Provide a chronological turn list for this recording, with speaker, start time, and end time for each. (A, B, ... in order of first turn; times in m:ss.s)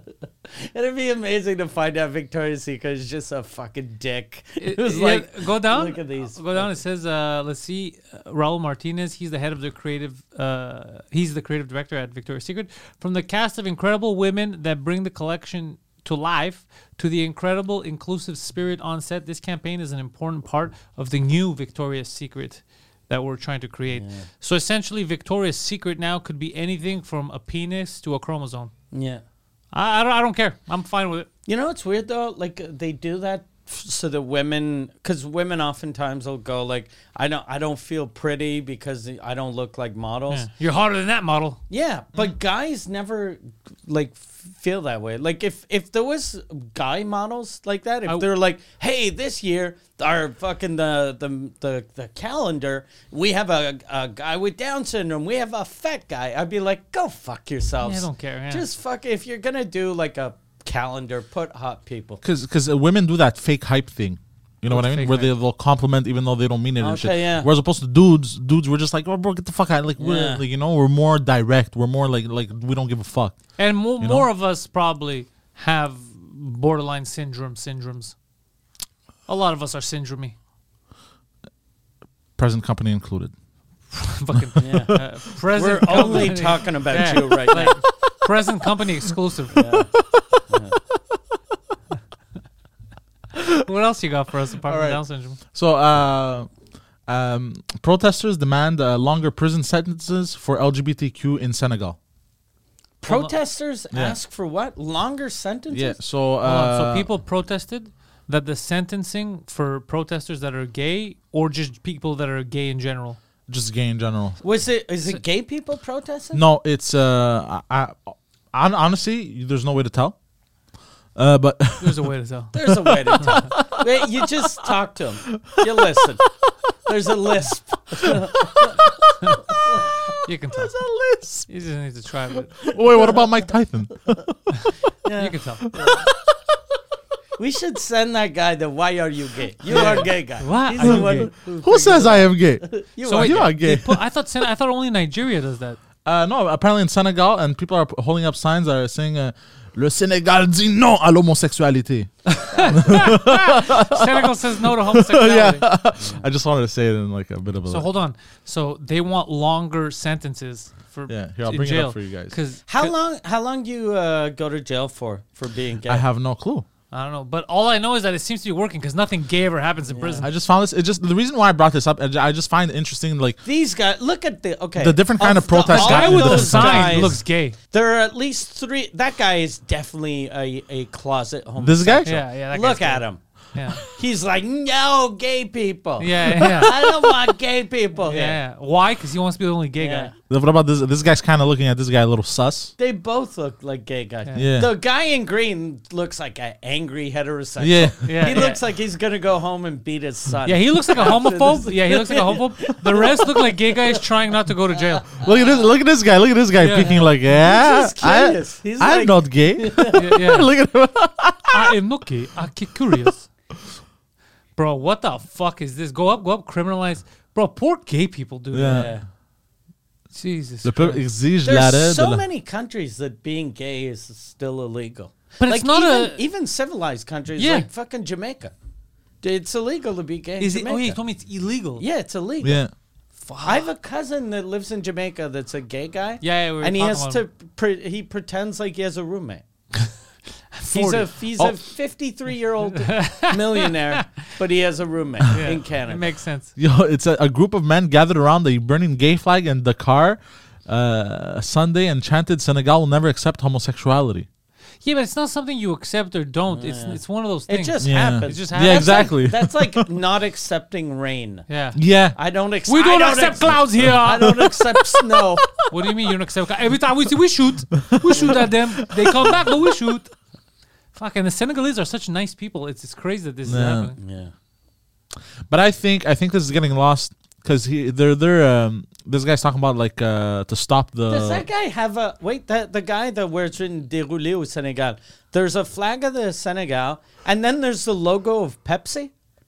0:00.5-0:06.8 A
0:04.6-0:28.7 B
0:23.9-0:24.3 A
0:28.9-0:29.2 A
0:29.7-0:31.3 B
0:31.5-0:40.5 A
0:40.3-0:41.6 B
0:41.7-1:02.2 A
0:57.8-0:58.6 B
1:02.2-1:13.4 C
1:04.7-1:05.3 B
1:06.8-1:07.5 A
1:10.0-1:10.4 A
1:13.6-1:18.1 B
1:14.0-1:14.3 C
1:19.3-1:20.4 B
1:22.4-1:23.3 C
1:23.9-1:29.7 B
1:24.4-1:25.1 C
1:24.6-1:25.0 A
1:25.5-1:27.8 A
1:29.5-1:29.9 A
1:30.5-1:30.8 A
1:33.5-1:35.4 B
1:34.7-1:36.5 C
1:37.1-1:42.0 C
1:43.0-1:46.0 A
1:43.1-1:43.3 B
1:43.9-1:44.2 C
1:45.7-1:47.1 C
1:46.4-1:53.2 B
1:53.5-1:54.4 C
1:54.4-1:56.4 A
1:56.3-2:00.2 C
2:01.2-2:02.1 C
2:01.8-2:02.6 B
2:02.5-2:06.2 A
2:02.7-2:04.7 C
2:05.3-2:06.1 C
2:06.9-2:08.8 A
2:08.0-2:08.9 C
2:10.2-2:10.9 B
2:10.7-2:11.5 C
2:11.5-2:12.8 B
2:12.7-2:14.5 C
2:14.6-2:15.7 B
2:15.0-2:16.1 A
2:15.8-2:16.2 C
2:17.4-2:23.5 A
2:19.7-2:20.1 C
2:19.7-2:21.3 B
2:20.8-2:24.0 C
2:23.0-2:25.8 B
2:26.0-2:37.9 C
2:32.3-2:35.7 B
2:32.5-2:33.1 A
2:36.0-2:36.3 A
2:37.7-2:42.9 B
2:41.1-2:42.4 C
2:42.7-2:46.0 A
2:45.9-2:46.7 C
2:46.9-2:50.3 B
2:49.9-2:50.3 A
2:50.2-2:53.4 C
2:53.4-3:03.2 A
2:54.8-2:57.2 C
2:55.6-2:57.6 B
3:01.6-3:02.2 C
3:02.0-3:03.0 B
3:03.6-3:03.8 B
3:03.9-3:08.4 A
3:06.0-3:06.8 B
3:08.0-3:10.1 B
3:09.8-3:10.1 A
3:10.3-3:12.7 C
3:12.8-3:24.0 A
3:14.4-3:14.7 C
3:17.6-3:18.4 C
3:18.0-3:18.6 B
3:20.4-3:25.2 B
3:25.2-3:25.5 A
3:25.2-3:31.8 C
3:26.6-3:27.1 B
3:26.8-3:30.0 A
3:29.9-3:30.5 B
3:31.5-3:33.3 B
3:34.6-3:38.9 B
3:38.5-3:39.0 C
3:38.7-3:39.0 A
3:40.1-3:41.0 B
3:40.6-3:42.2 C
3:41.4-3:48.5 A
3:45.4-3:46.2 B
3:47.4-3:47.7 B
3:49.2-3:51.0 A
3:50.4-3:51.8 B
3:51.8-3:52.6 A
3:52.4-3:52.7 C
3:53.2-3:53.7 B
3:53.4-3:59.4 A
3:56.2-3:57.2 B
4:00.5-4:01.1 B
4:00.7-4:06.1 A
4:02.7-4:04.0 B
4:05.3-4:06.5 B
4:06.6-4:14.3 C
4:14.8-4:19.1 B
4:16.5-4:21.5 A
4:17.8-4:19.9 C
4:21.5-4:21.8 B
4:21.8-4:22.2 C
4:22.2-4:25.5 A
4:22.7-4:24.6 B
4:23.8-4:25.9 C
4:25.7-4:30.1 B
4:27.8-4:29.5 C
4:28.1-4:28.4 A
4:30.9-4:34.0 B
4:33.5-4:33.9 C
4:34.0-4:34.3 A
4:35.5-4:41.5 C
4:41.1-4:49.1 A